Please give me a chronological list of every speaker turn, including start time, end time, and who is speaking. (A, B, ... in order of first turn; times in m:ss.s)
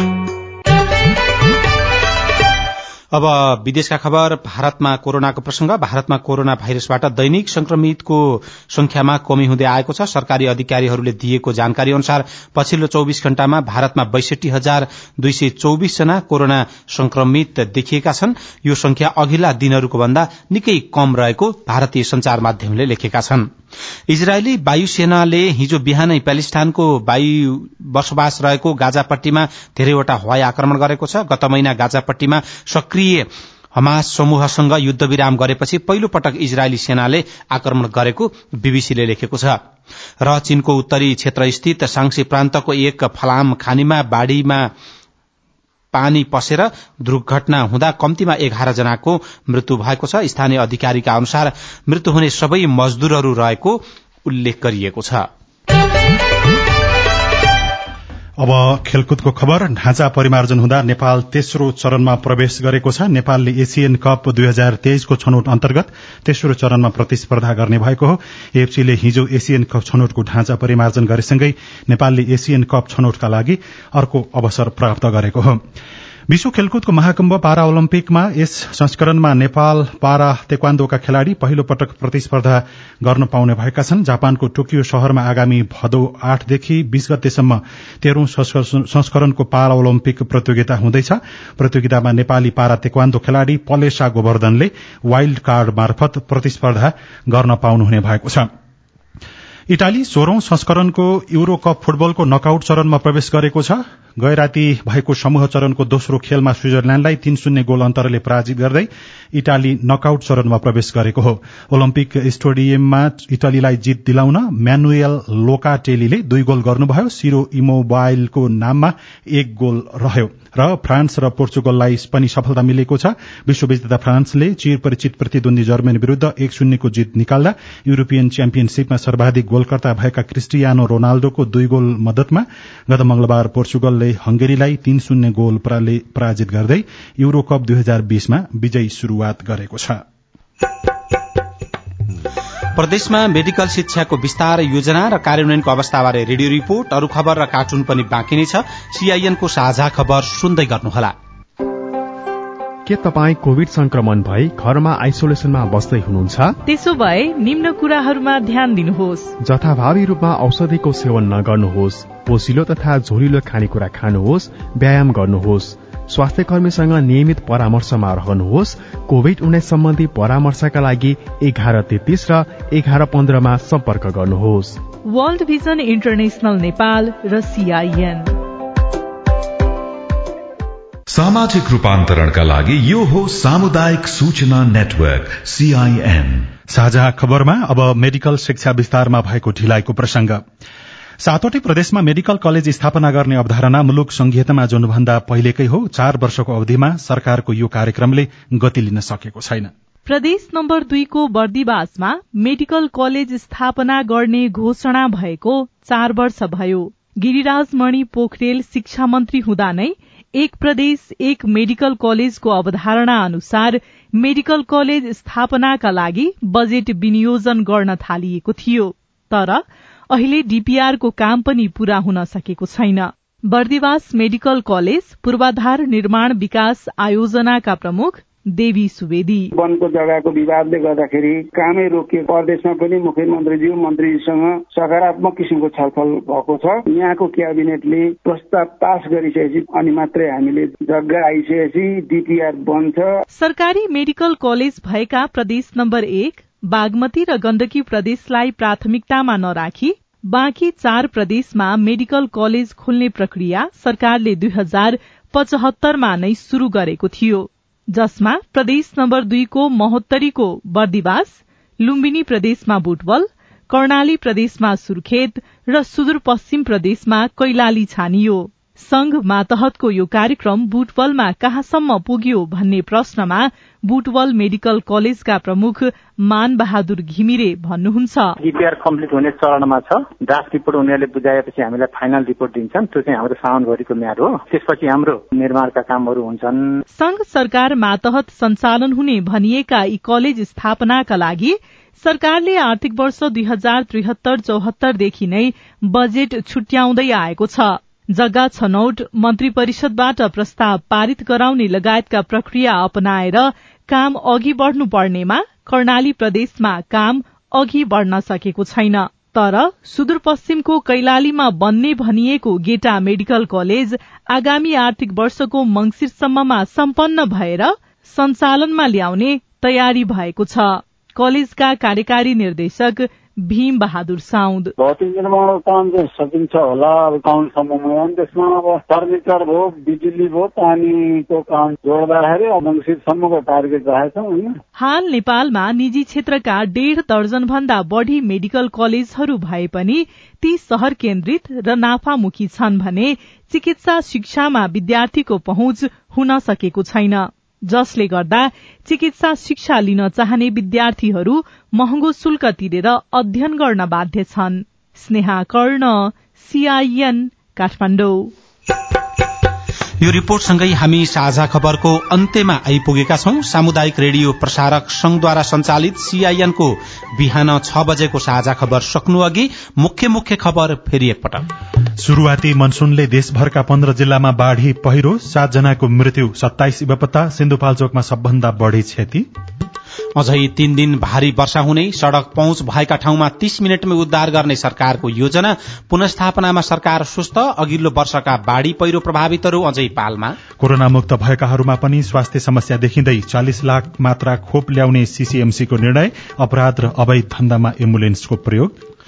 0:03.1-0:23.5 A
0:24.1-0:33.2 A
0:33.8-0:39.6 A
0:40.2-0:44.7 A
0:45.9-0:55.2 A
0:58.4-1:15.6 B
1:16.3-1:38.5 B
1:39.7-2:20.0 B
2:22.8-2:31.1 A
2:32.8-2:36.6 C
2:36.7-2:39.3 D
2:39.4-2:54.8 C
2:55.0-2:58.3 D
3:01.1-3:06.5 E
3:06.7-3:10.4 B
3:11.2-3:19.7 B
3:20.0-3:49.5 D
3:49.6-4:03.0 F
4:03.3-4:38.4 D
4:38.4-4:46.6 G
4:46.9-5:24.7 D
5:24.8-5:34.6 H
5:34.8-5:58.3 D
6:00.0-6:11.4 A
6:12.0-6:19.2 B
6:20.2-6:30.4 A
6:30.6-6:38.8 B